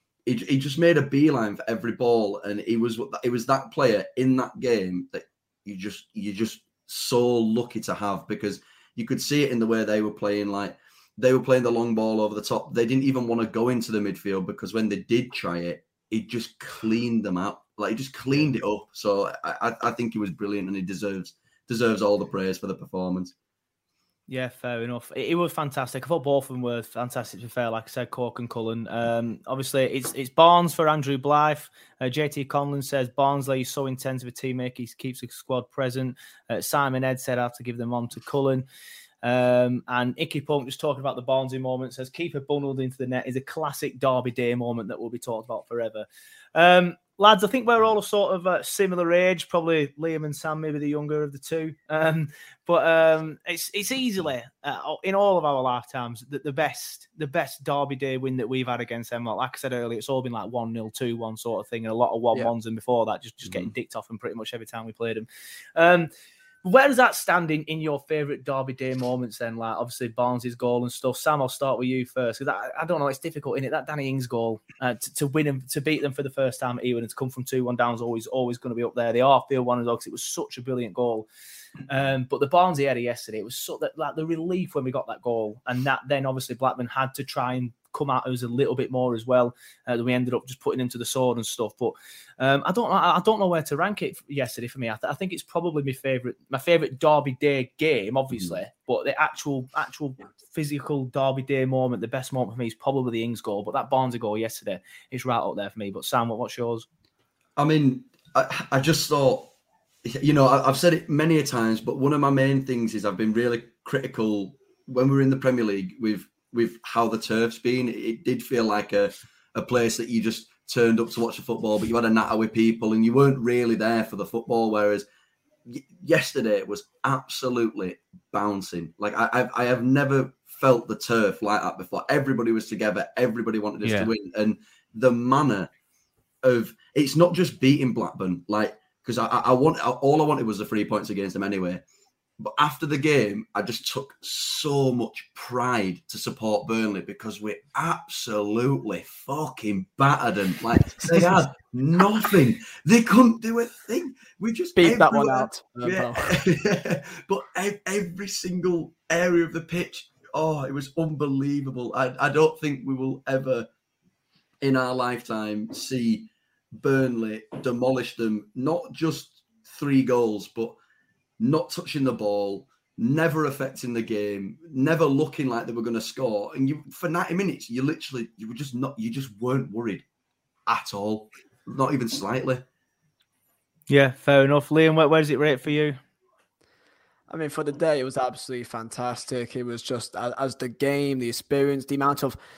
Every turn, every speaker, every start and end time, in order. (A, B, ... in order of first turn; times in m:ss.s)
0:00.2-0:23.3 A
0:24.3-0:38.6 B
0:39.2-1:06.1 B
1:03.4-1:03.7 A
1:06.6-1:21.3 B
1:21.9-1:46.8 B
1:47.6-1:49.5 A
1:50.0-2:05.0 A
2:05.7-2:15.7 A
2:13.8-2:14.1 B
2:16.4-2:21.8 A
2:22.4-2:43.7 A
2:34.8-2:36.4 C
2:44.6-2:50.8 A
2:51.4-3:00.0 A
3:00.6-3:02.6 A
3:03.9-3:06.0 B
3:07.3-3:12.4 C